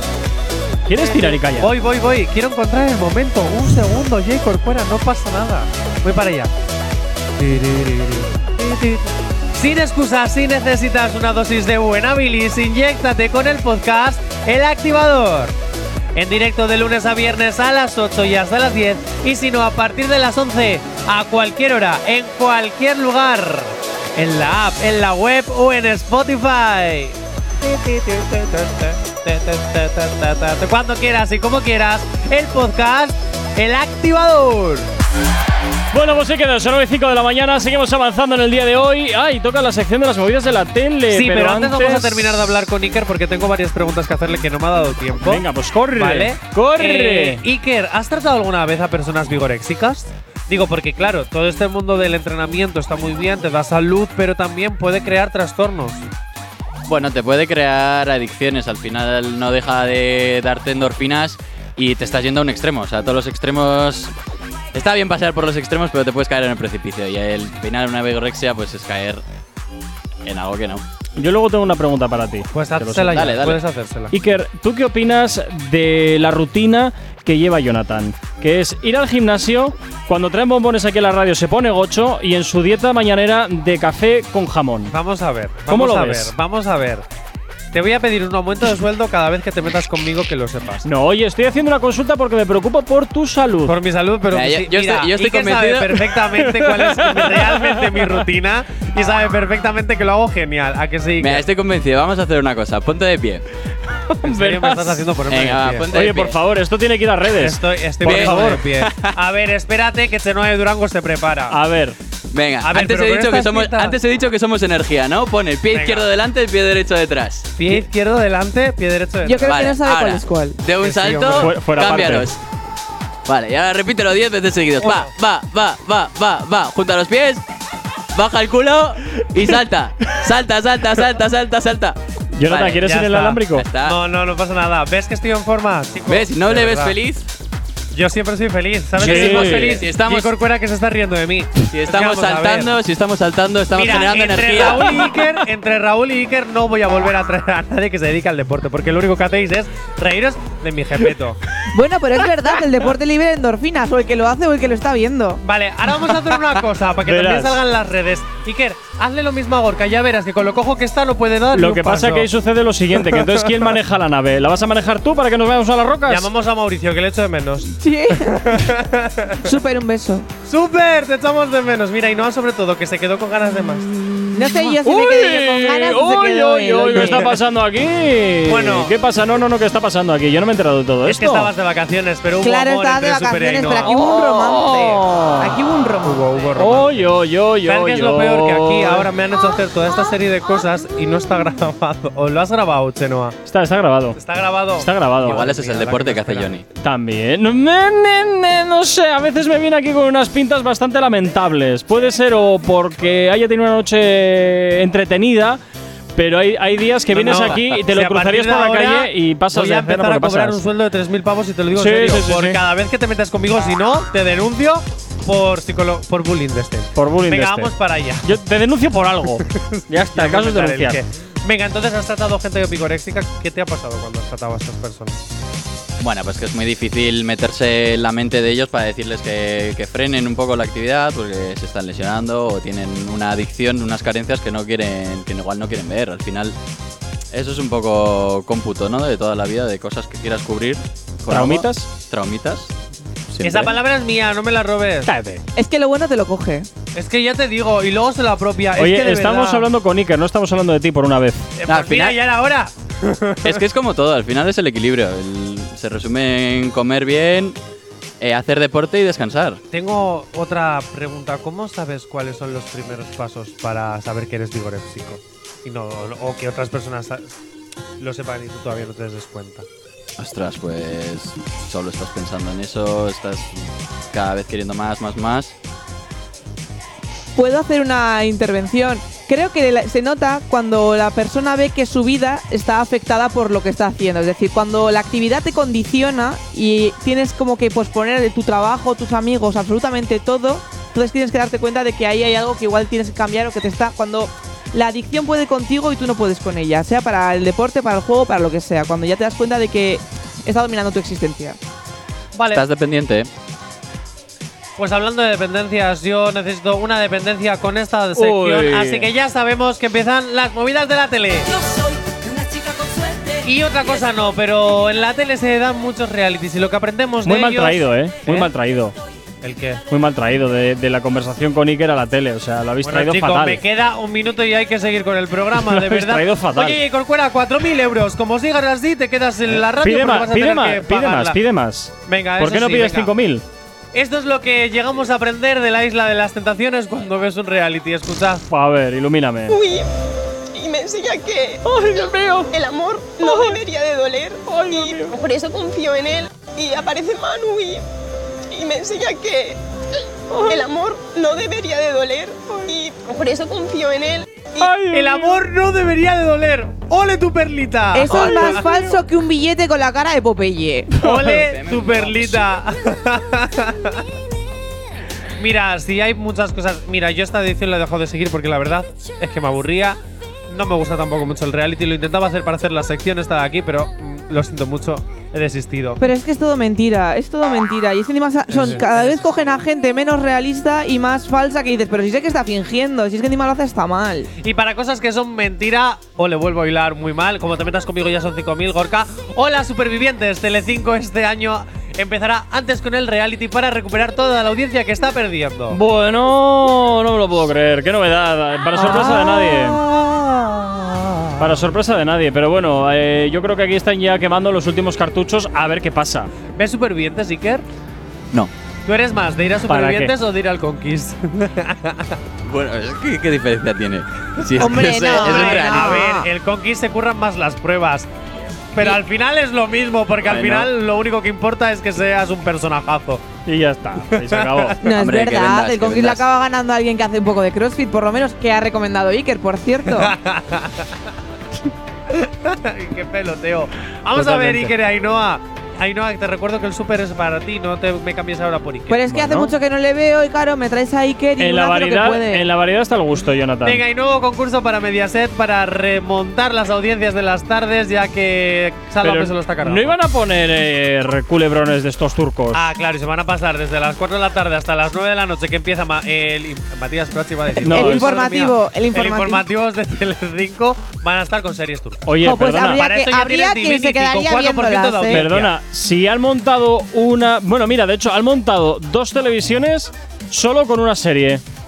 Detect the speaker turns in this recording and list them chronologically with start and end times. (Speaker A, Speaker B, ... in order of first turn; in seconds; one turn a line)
Speaker A: 0.9-1.7
Speaker B: 0.9-6.5
Speaker B: 7.4-15.6
Speaker B: 16.1-34.9
Speaker A: 35.9-42.2
Speaker B: 41.1-45.4
Speaker A: 45.2-47.4
Speaker B: 45.9-56.0
Speaker C: 56.9-64.1
Speaker C: 64.7-69.2
Speaker C: 70.2-70.8
Speaker A: 71.2-73.2
Speaker B: 72.5-74.1
Speaker C: 73.1-73.6
Speaker A: 74.1-84.9
Speaker B: 84.9-87.0
Speaker A: 85.7-86.3
Speaker B: 87.7-90.9
Speaker A: 90.8-93.7
Speaker B: 93.7-101.4
Speaker C: 94.3-96.2
Speaker A: 96.6-97.8
Speaker C: 101.2-103.4
Speaker A: 104.1-105.0
Speaker B: 104.2-106.0
Speaker C: 105.3-106.4
Speaker A: 105.9-108.6
Speaker B: 107.4-111.6
Speaker C: 108.0-109.1
Speaker A: 111.5-112.0
Speaker C: 112.3-117.8
Speaker B: 112.6-114.0
Speaker B: 115.7-116.1
Speaker B: 117.6-119.5
Speaker D: 119.2-120.6
Speaker C: 119.4-122.4
Speaker B: 120.8-121.5
Speaker A: 121.4-122.3
Speaker C: 123.2-127.4
Speaker B: 124.8-125.1
Speaker C: 128.1-132.9
Speaker A: 132.3-133.7
Speaker B: 132.8-136.9
Speaker C: 133.6-134.0
Speaker C: 136.1-137.2
Speaker B: 137.9-142.7
Speaker A: 139.0-139.8
Speaker C: 139.0-140.3
Speaker C: 141.7-145.3
Speaker B: 143.7-151.4
Speaker D: 151.7-155.4
Speaker B: 155.4-162.3
Speaker A: 157.0-157.6
Speaker A: 161.5-166.3
Speaker B: 163.0-163.7
Speaker B: 166.1-167.7
Speaker D: 167.7-168.7
Speaker B: 168.3-169.4
Speaker D: 169.4-170.3
Speaker B: 170.4-173.9
Speaker D: 174.3-177.3
Speaker A: 174.5-181.5
Speaker B: 177.0-177.2
Speaker B: 178.4-178.9
Speaker B: 181.0-183.9
Speaker D: 182.4-186.5
Speaker A: 183.8-185.5
Speaker B: 186.0-193.4
Speaker A: 186.6-189.1
Speaker A: 193.4-194.2
Speaker B: 194.2-196.6
Speaker A: 194.8-195.4
Speaker C: 195.2-196.6
Speaker A: 196.8-205.6
Speaker A: 206.2-210.6
Speaker B: 207.1-218.3
Speaker C: 207.3-207.6
Speaker A: 211.7-212.6
Speaker A: 216.9-217.7
Speaker A: 218.2-221.0
Speaker B: 219.4-225.2
Speaker C: 226.0-236.5
Speaker C: 237.3-242.7
Speaker A: 241.3-241.9
Speaker C: 243.3-243.8
Speaker B: 243.4-245.1
Speaker A: 245.1-245.4
Speaker D: 245.6-246.7
Speaker B: 246.9-249.7
Speaker A: 248.8-251.5
Speaker B: 251.6-253.6
Speaker C: 251.7-252.2
Speaker C: 253.4-257.6
Speaker C: 258.2-259.6
Speaker B: 259.7-267.3
Speaker B: 268.0-269.6
Speaker C: 270.2-275.5
Speaker D: 277.4-301.6
Speaker B: 302.3-302.6
Speaker C: 302.5-303.3
Speaker B: 304.8-311.5
Speaker A: 308.1-309.1
Speaker B: 313.4-318.5
Speaker A: 317.2-318.9
Speaker B: 319.4-319.8
Speaker A: 319.9-323.6
Speaker B: 322.8-331.4
Speaker A: 325.6-326.8
Speaker A: 329.8-333.4
Speaker B: 332.1-333.1
Speaker B: 333.9-338.4
Speaker A: 338.5-339.6
Speaker E: 339.5-339.9
Speaker E: 340.5-341.6
Speaker A: 341.6-342.5
Speaker E: 342.5-347.8
Speaker A: 343.2-343.6
Speaker A: 344.5-345.1
Speaker E: 348.5-349.6
Speaker E: 350.3-354.8
Speaker A: 354.6-355.4
Speaker B: 354.9-359.0
Speaker D: 357.9-361.0
Speaker B: 361.0-364.0
Speaker C: 361.3-362.6
Speaker B: 365.4-370.0
Speaker B: 370.5-376.0
Speaker D: 376.0-384.3
Speaker B: 378.5-379.2
Speaker B: 384.4-395.8
Speaker A: 395.7-399.8
Speaker B: 398.7-401.4
Speaker A: 401.4-406.3
Speaker B: 406.6-407.6
Speaker B: 408.9-412.2
Speaker A: 409.7-410.1
Speaker C: 412.4-416.0
Speaker D: 414.6-416.3
Speaker B: 414.6-418.1
Speaker B: 418.7-423.2
Speaker C: 420.2-420.7
Speaker A: 423.4-424.8
Speaker B: 424.1-424.8
Speaker D: 424.8-430.1
Speaker C: 424.9-426.2
Speaker B: 429.9-430.9
Speaker B: 432.1-439.0
Speaker A: 434.1-434.7
Speaker D: 438.9-442.4
Speaker A: 439.1-439.5
Speaker A: 441.4-443.8
Speaker B: 443.6-449.9
Speaker A: 449.0-452.6
Speaker B: 452.5-462.1
Speaker A: 457.6-458.1
Speaker D: 457.7-459.4
Speaker A: 462.1-462.8
Speaker D: 462.2-465.2
Speaker B: 462.7-465.5
Speaker A: 465.1-471.4